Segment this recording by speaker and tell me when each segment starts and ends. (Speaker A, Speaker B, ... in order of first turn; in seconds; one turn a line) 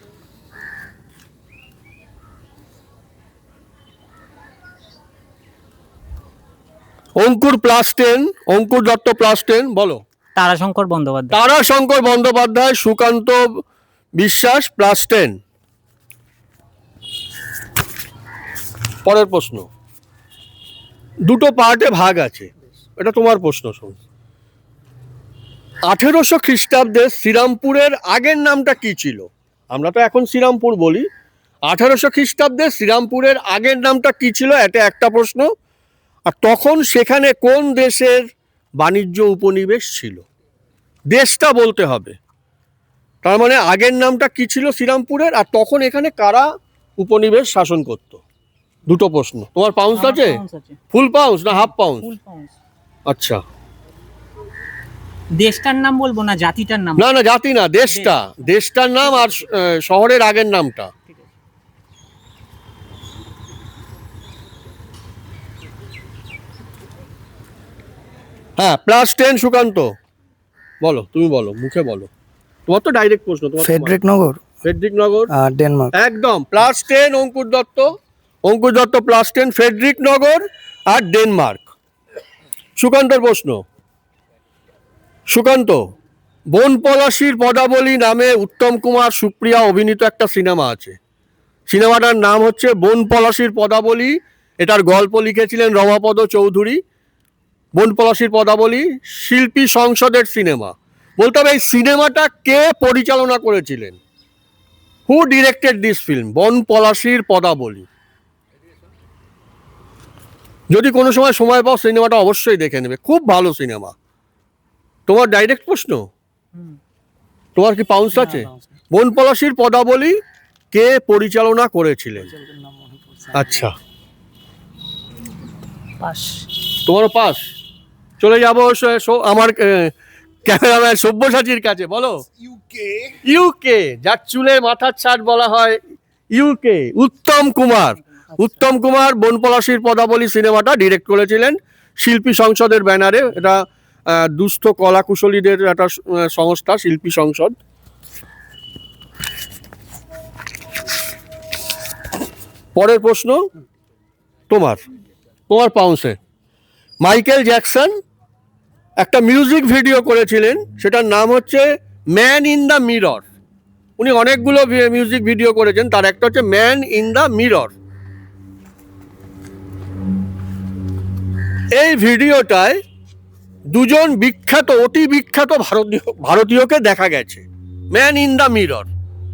Speaker A: 7.2-10.0
Speaker B: 10.3-11.4
Speaker A: 11.3-13.6
Speaker A: 14.2-15.4
Speaker A: 19.1-19.7
Speaker A: 21.3-24.0
Speaker A: 25.9-31.1
Speaker A: 31.7-35.5
Speaker A: 36.3-38.2
Speaker A: 38.8-40.2
Speaker A: 41.1-42.1
Speaker A: 43.2-46.5
Speaker A: 47.0-48.2
Speaker A: 48.9-50.4
Speaker B: 50.0-50.8
Speaker A: 50.9-52.1
Speaker B: 51.5-52.6
Speaker A: 53.1-53.4
Speaker B: 55.4-57.1
Speaker A: 57.0-60.9
Speaker B: 57.9-59.6
Speaker A: 68.6-69.9
Speaker A: 70.8-72.1
Speaker A: 72.7-74.0
Speaker C: 73.6-74.5
Speaker A: 74.6-75.3
Speaker C: 75.3-75.9
Speaker A: 76.0-81.7
Speaker A: 82.8-83.6
Speaker A: 85.3-85.8
Speaker A: 86.5-91.0
Speaker A: 91.7-96.8
Speaker A: 97.7-104.0
Speaker A: 105.1-107.9
Speaker A: 110.7-113.9
Speaker A: 115.1-116.0
Speaker A: 117.6-120.2
Speaker C: 118.1-118.8
Speaker A: 120.7-122.3
Speaker C: 122.2-123.7
Speaker A: 123.3-123.7
Speaker B: 126.0-126.5
Speaker A: 126.9-127.4
Speaker A: 128.2-129.9
Speaker A: 130.5-132.2
Speaker A: 133.2-135.8
Speaker A: 136.3-147.6
Speaker A: 152.8-153.4
Speaker A: 154.5-154.8
Speaker A: 155.5-156.2
Speaker A: 157.0-157.9
Speaker A: 159.0-163.2
Speaker A: 164.0-167.7
Speaker A: 171.8-172.8
Speaker A: 173.7-178.9